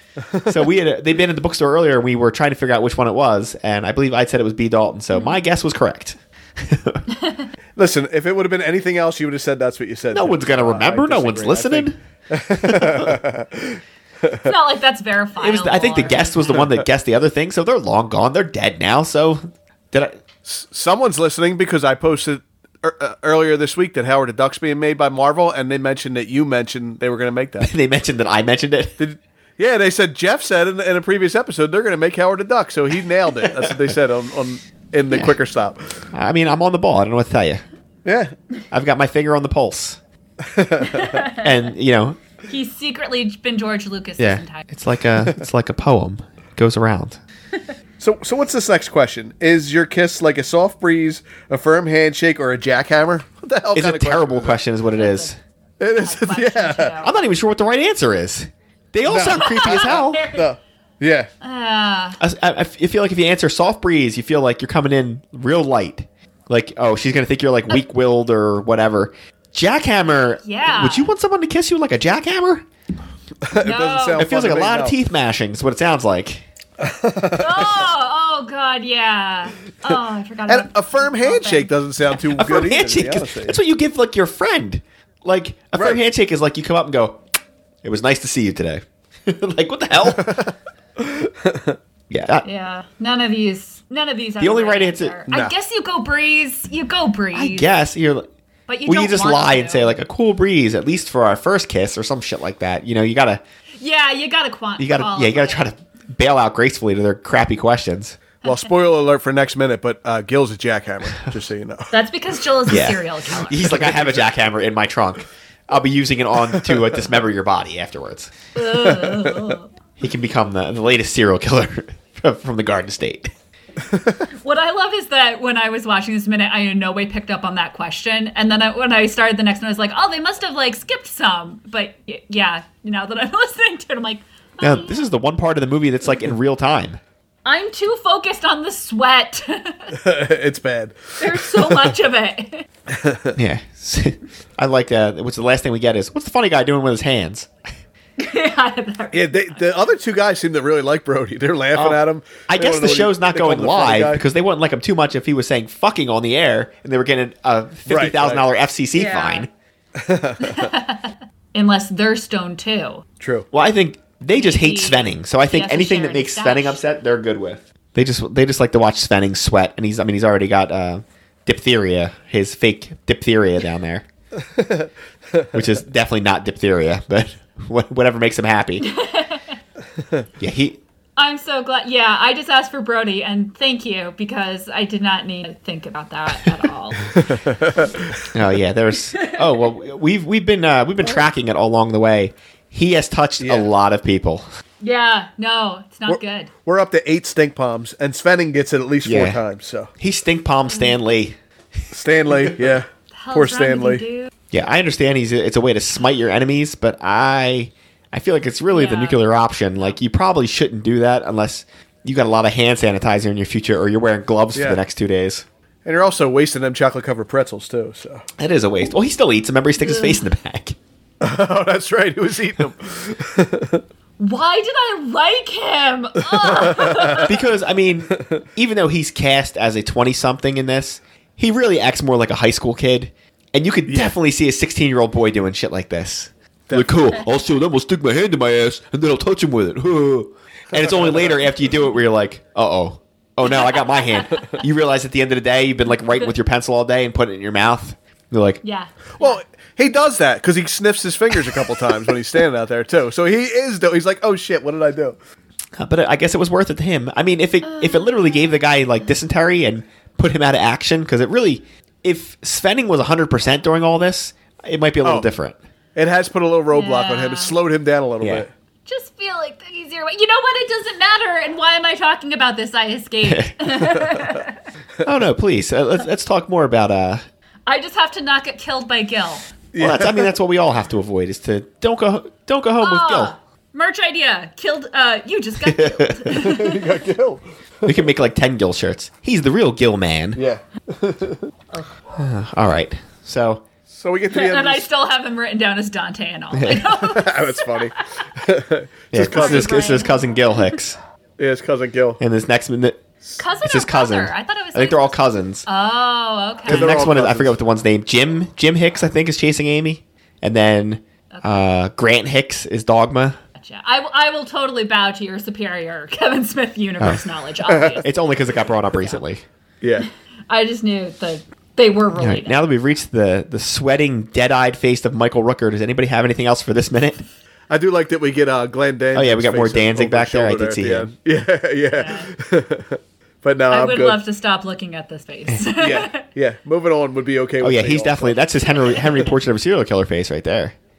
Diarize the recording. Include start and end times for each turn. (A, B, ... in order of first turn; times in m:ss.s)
0:00.5-0:07.0 A
0:05.1-0:05.4 B
0:07.1-0:07.4 B
0:07.8-0:14.5 C
0:10.1-0:12.0 A
0:12.6-0:13.2 A
0:14.4-0:16.6 B
0:15.4-0:20.2 A
0:20.4-0:27.7 C
0:27.6-0:29.0 A
0:29.0-0:36.0 C
0:33.4-0:33.8 A
0:36.1-0:37.6 A
0:38.0-0:38.3 C
0:38.7-0:40.0 A
0:40.4-0:41.2 C
0:40.8-0:41.4 B
0:41.4-0:42.2 A
0:42.5-0:44.7 B
0:44.2-0:47.2 A
0:48.0-0:54.6 C
0:53.7-0:55.4 A
0:55.0-0:55.3 B
0:55.8-0:56.9 C
0:56.0-0:57.1 B
0:57.0-1:00.3 A
0:59.1-1:01.3 C
0:59.3-1:00.4 B
1:01.4-1:02.2 B
1:02.2-1:12.6 A
1:10.4-1:11.1 B
1:13.4-1:15.0 C
1:13.6-1:14.3 B
1:14.2-1:16.4 A
1:16.8-1:17.8 C
1:17.4-1:21.7 B
1:20.5-1:23.6 C
1:22.3-1:27.2 A
1:25.8-1:26.0 C
1:27.8-1:30.5 A
1:31.0-1:31.8 C
1:32.1-1:32.5 A
1:32.4-1:37.7 B
1:34.4-1:35.2 A
1:37.3-1:38.3 A
1:38.7-1:40.0 B
1:38.9-1:43.4 A
1:43.8-1:45.7 B
1:44.8-1:48.2 A
1:48.4-1:51.9 C
1:51.9-1:53.6 B
1:52.7-1:58.3 A
1:53.6-1:54.2 C
1:58.6-1:59.7 B
2:00.0-2:03.3 A
2:04.4-2:15.1 B
2:14.6-2:17.0 A
2:17.4-2:20.0 B
2:19.9-2:21.9 C
2:21.2-2:22.6 B
2:22.9-2:23.4 C
2:23.4-2:27.5 A
2:28.2-2:29.8 B
2:29.1-2:34.2 C
2:31.7-2:39.5 A
2:37.9-2:38.4 C
2:38.9-2:39.5 B
2:40.0-2:40.7 C
2:40.4-2:43.0 B
2:43.2-2:43.4 C
2:43.5-2:54.0 A
2:44.3-2:46.8 B
2:54.6-2:54.9 C
2:55.5-2:58.9 A
2:58.8-2:59.6 B
3:00.4-3:00.8 A
3:01.2-3:07.2 B
3:07.1-3:08.2 C
3:08.3-3:14.4 A
3:09.1-3:09.4 B
3:13.4-3:13.7 C
3:14.8-3:16.5 B
3:16.1-3:19.9 C
3:19.0-3:19.4 A
3:20.0-3:21.4 A
3:21.9-3:24.0 C
3:23.1-3:24.3 B
3:24.5-3:35.4 A
3:28.7-3:29.2 B
3:34.6-3:34.8 C
3:35.8-3:38.3 C
3:38.4-3:40.8 A
3:39.9-3:40.1 B
3:41.2-3:43.8 C
3:44.2-3:47.3 B
3:46.3-3:47.2 C
3:47.1-4:08.6 A
3:53.9-3:54.1 C
3:56.7-3:56.9 C
4:08.6-4:09.4 B
4:09.2-4:15.2 C
4:15.8-4:25.6 A
4:17.6-4:18.6 B
4:25.0-4:25.3 C
4:25.9-4:28.5 C
4:26.7-4:27.6 B
4:28.2-4:28.4 A
4:28.9-4:34.6 B
4:33.2-4:33.6 A
4:35.0-4:37.2 A
4:37.7-4:39.5 B
4:39.7-4:40.3 C
4:39.8-4:43.3 A
4:42.8-4:46.9 B
4:45.6-4:46.3 A
4:46.3-4:47.9 C
4:47.8-4:50.4 A
4:50.4-4:51.5 C
4:52.1-4:53.6 A
4:53.9-4:54.9 C
4:54.3-4:58.0 B
4:56.5-4:56.9 A
4:57.0-4:59.9 C
4:59.1-5:01.0 A
4:59.3-5:00.6 B
5:01.4-5:02.2 C
5:02.2-5:03.0 A
5:03.4-5:06.9 B
5:03.6-5:05.7 A
5:06.6-5:07.6 C
5:06.6-5:13.4 A
5:11.3-5:11.6 B
5:13.6-5:18.3 B
5:17.7-5:18.0 C
5:18.0-5:19.4 A
5:18.9-5:19.2 B
5:19.8-5:20.1 C
5:20.5-5:22.6 B
5:22.1-5:27.2 A
5:27.7-5:34.2 C
5:29.1-5:31.1 A
5:31.9-5:32.3 B
5:33.7-5:36.2 B
5:35.8-5:38.4 C
5:37.6-5:40.8 A
5:38.7-5:39.3 B